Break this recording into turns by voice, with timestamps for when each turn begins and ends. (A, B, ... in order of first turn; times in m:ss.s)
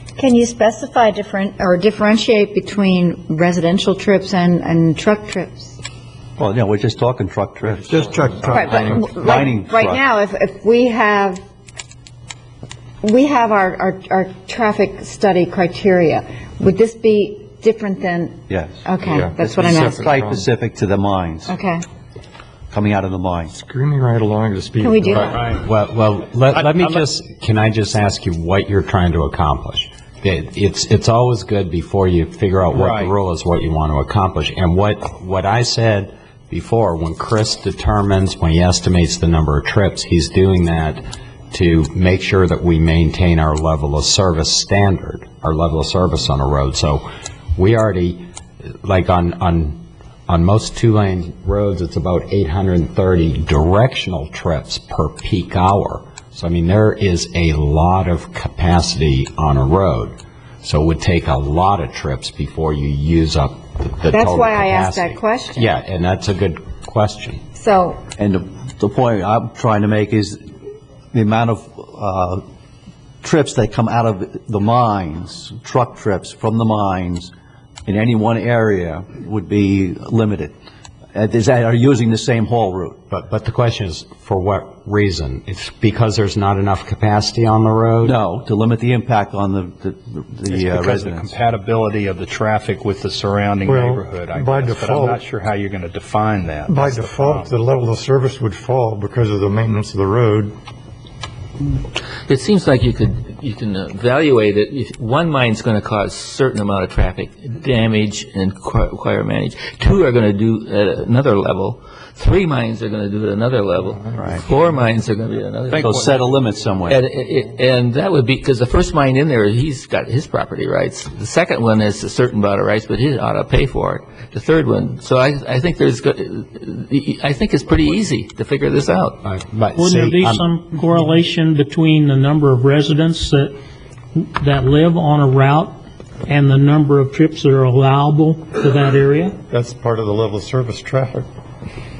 0:00.2-0:05.8 A
0:06.4-0:08.6 B
0:07.7-0:09.1 C
0:08.5-0:11.4 A
0:09.2-0:10.0 B
0:13.0-0:20.2 A
0:18.5-0:18.8 B
0:19.0-0:20.4 C
0:19.4-0:21.5 B
0:21.4-0:21.8 A
0:22.7-0:23.5 B
0:23.5-0:25.4 C
0:24.8-0:25.6 A
0:25.1-0:48.2 D
0:25.3-0:25.6 E
0:26.6-0:27.0 E
0:32.7-0:33.1 E
0:48.8-1:07.4 D
1:04.1-1:05.7 A
1:07.5-1:08.0 A
1:08.2-1:10.4 B
1:11.1-1:12.4 B
1:13.2-1:17.3 B
1:17.8-1:20.5 B
1:21.1-1:23.0 B
1:23.1-1:28.2 D
1:28.0-1:31.3 B
1:30.5-1:37.5 E
1:33.6-1:35.2 C
1:36.7-1:40.5 C
1:42.3-2:09.2 F
1:55.7-1:56.2 E
1:55.8-1:57.0 B
2:09.2-2:10.4 D
2:09.8-2:13.5 G
2:14.2-2:19.4 G
2:19.5-2:21.2 C